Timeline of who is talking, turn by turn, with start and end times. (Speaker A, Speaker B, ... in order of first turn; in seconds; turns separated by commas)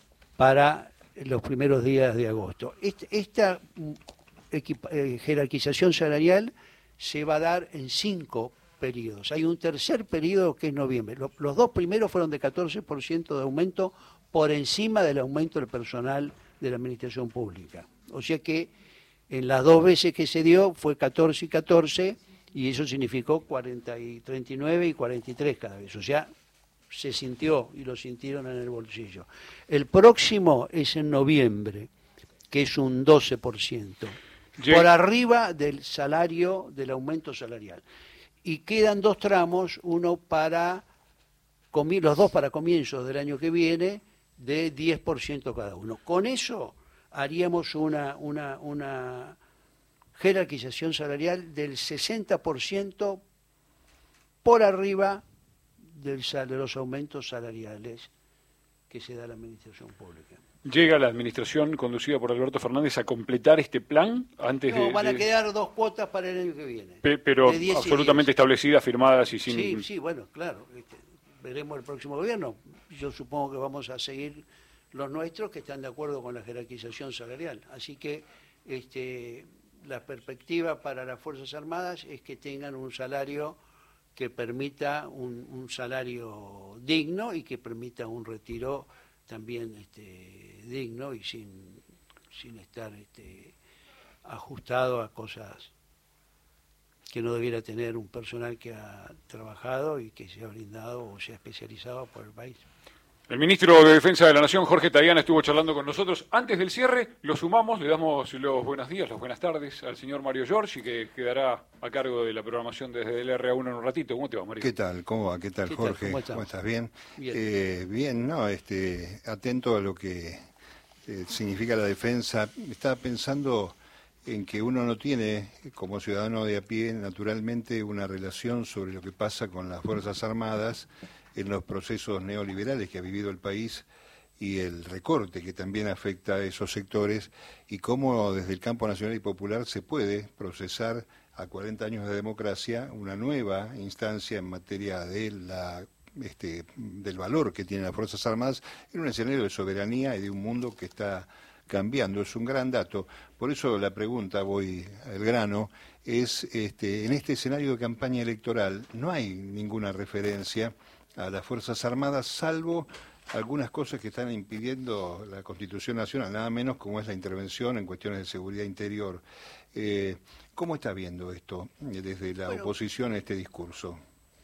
Speaker A: 0.4-18.7, Speaker A: 19.3-26.3, Speaker A: 26.9-31.9, Speaker A: 32.5-37.8, Speaker B: 34.6-34.9, Speaker A: 38.4-40.9, Speaker A: 41.7-49.4, Speaker A: 50.2-53.2, Speaker A: 54.4-55.2, Speaker A: 55.8-58.1, Speaker A: 58.9-60.4, Speaker B: 60.6-65.2, Speaker A: 64.7-68.3, Speaker B: 67.0-69.8, Speaker A: 69.5-83.6, Speaker A: 84.2-93.5, Speaker A: 94.2-95.7, Speaker A: 97.1-102.7, Speaker B: 103.3-114.7, Speaker C: 114.6-120.5, Speaker A: 115.7-116.5, Speaker A: 117.2-117.5, Speaker C: 121.1-133.9, Speaker C: 134.4-174.0